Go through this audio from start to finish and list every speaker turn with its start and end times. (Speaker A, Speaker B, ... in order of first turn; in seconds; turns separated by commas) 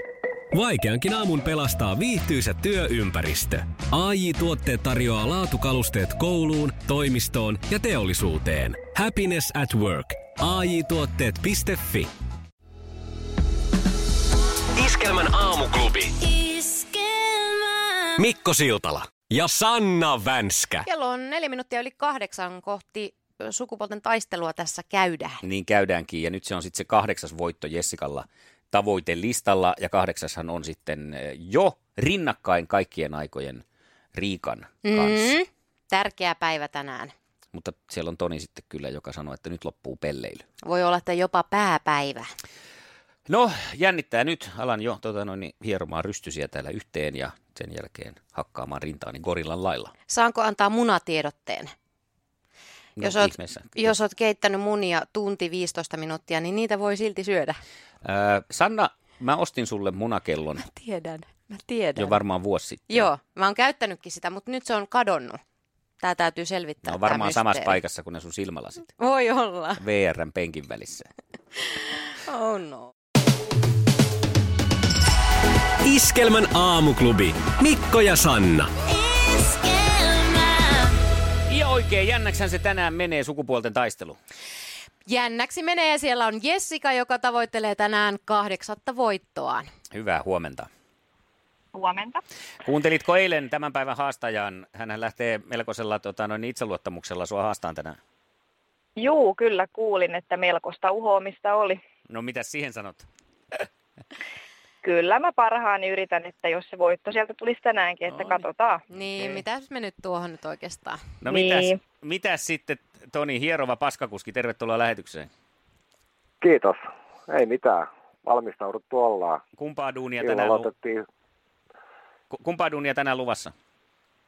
Speaker A: 0.5-12.1, Speaker A: 14.8-16.1, Speaker A: 18.2-20.8, Speaker B: 20.8-25.4, Speaker C: 25.4-33.6, Speaker C: 34.1-35.3, Speaker B: 34.8-37.1, Speaker C: 37.5-40.4, Speaker B: 40.6-42.3, Speaker C: 43.3-49.9, Speaker B: 50.1-51.7, Speaker C: 53.0-53.9, Speaker B: 53.0-57.6, Speaker C: 58.0-60.6, Speaker B: 60.6-62.2, Speaker C: 62.0-63.1, Speaker B: 62.9-65.4, Speaker B: 66.0-67.8, Speaker C: 66.8-68.9, Speaker B: 69.0-69.8, Speaker C: 69.8-71.1, Speaker B: 71.6-72.9, Speaker A: 75.8-78.7, Speaker B: 79.0-80.6, Speaker C: 81.5-84.2, Speaker B: 85.1-89.7, Speaker C: 89.9-90.7, Speaker D: 91.7-92.2, Speaker C: 92.6-98.0, Speaker D: 99.0-101.8, Speaker C: 102.1-103.1, Speaker D: 104.8-108.8, Speaker B: 108.9-111.0, Speaker C: 111.2-115.3, Speaker D: 111.3-111.8, Speaker E: 116.4-119.4, Speaker C: 119.6-120.7, Speaker E: 120.2-121.0, Speaker C: 122.3-123.5